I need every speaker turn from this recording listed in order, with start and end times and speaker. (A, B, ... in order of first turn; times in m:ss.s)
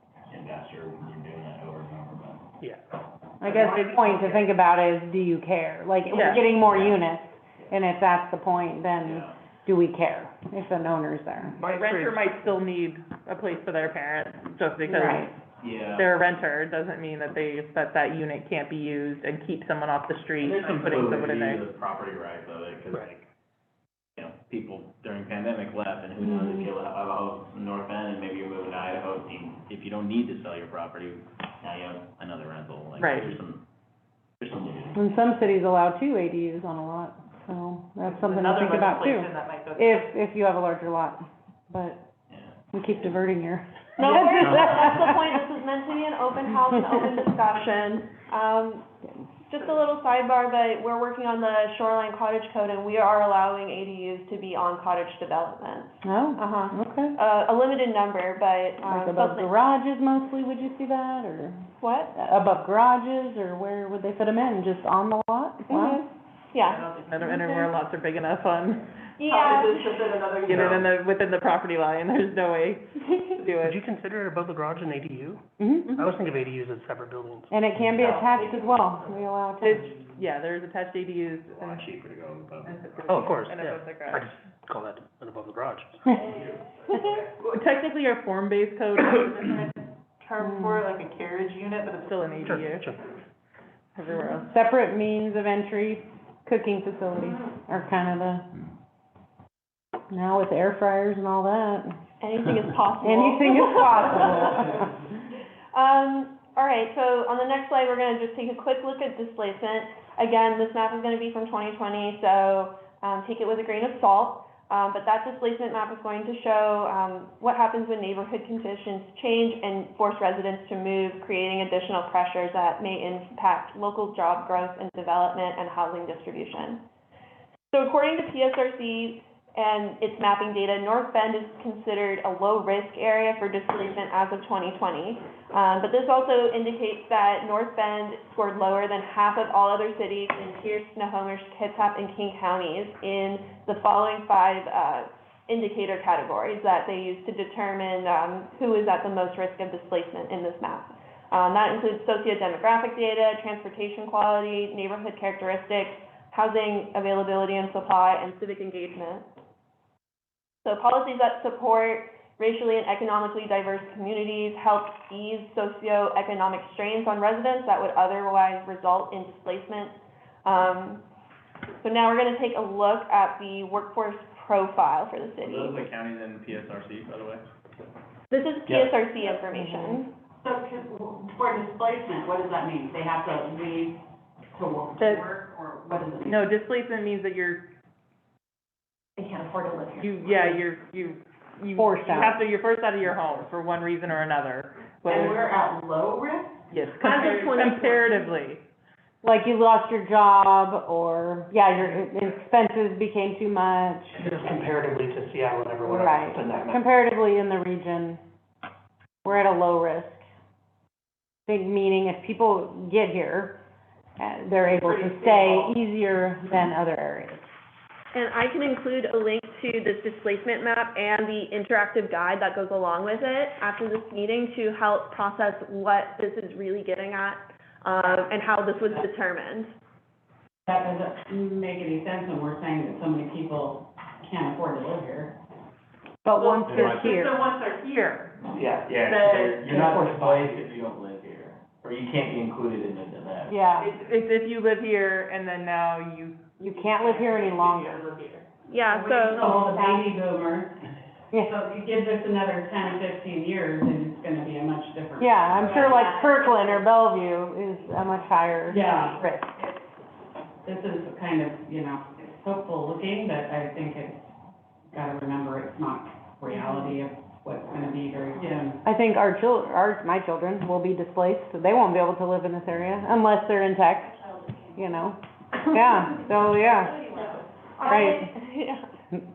0:00.3-0:02.5 A
0:03.4-0:11.6 B
0:03.4-0:04.4 C
0:06.1-0:06.4 D
0:06.6-0:07.0 A
0:09.0-0:09.4 A
0:11.6-0:12.3 C
0:11.7-0:15.3 D
0:14.9-0:15.3 B
0:15.6-0:16.1 A
0:15.9-0:21.6 D
0:20.4-0:23.3 A
0:24.2-0:33.6 A
0:26.2-0:26.7 B
0:33.0-0:33.3 D
0:34.4-0:35.0 A
0:34.9-0:42.0 B
0:38.0-0:40.1 D
0:42.3-0:43.1 A
0:42.7-0:45.4 B
0:44.0-0:48.9 E
0:49.5-0:59.5 E
0:56.0-0:57.2 B
0:58.8-1:01.6 B
1:01.8-1:02.1 E
1:02.2-1:06.0 B
1:05.7-1:07.7 E
1:06.6-1:13.8 D
1:09.2-1:10.0 E
1:13.6-1:17.5 C
1:15.6-1:15.9 B
1:17.5-1:19.9 B
1:18.0-1:18.3 D
1:19.6-1:21.9 D
1:21.6-1:22.7 A
1:22.6-1:24.3 D
1:23.0-1:26.2 C
1:26.9-1:33.0 D
1:30.4-1:30.9 B
1:32.4-1:33.0 C
1:34.0-1:34.5 D
1:34.4-1:38.5 B
1:40.1-1:42.0 B
1:42.2-1:44.8 E
1:43.0-1:44.9 B
1:45.7-2:06.8 E
2:07.7-2:39.3 E
2:40.6-2:51.0 E
2:51.8-2:55.8 E
2:55.4-2:57.4 A
2:58.3-3:00.1 E
2:59.5-3:00.0 B
3:00.4-3:04.0 F
3:04.5-3:06.5 F
3:06.2-3:07.6 D
3:10.0-3:15.4 D
3:11.8-3:12.4 B
3:15.1-3:16.6 F
3:16.7-3:18.6 D
3:17.0-3:18.3 E
3:19.2-3:24.2 B
3:24.2-3:26.9 C
3:25.8-3:28.2 B
3:29.2-3:30.2 B
3:31.5-3:33.6 B
3:34.2-3:37.5 B
3:38.1-3:49.7 E
3:50.7-3:55.3 F
3:56.2-3:57.4 B
3:56.4-3:58.3 D
3:56.7-3:57.0 A
3:58.6-4:03.6 A
3:59.0-3:59.8 D
3:59.7-4:00.1 F
4:03.5-4:03.9 B
4:03.8-4:09.2 D
4:06.6-4:08.0 B
4:08.7-4:09.6 E
4:09.2-4:10.7 F
4:11.4-4:16.1 F
4:15.2-4:19.4 B
4:18.7-4:19.2 F
4:20.6-4:24.2 F
4:24.9-4:28.8 F
4:28.8-4:34.2 B
4:34.8-4:37.0 B
4:37.8-4:38.9 E
4:37.9-4:38.3 B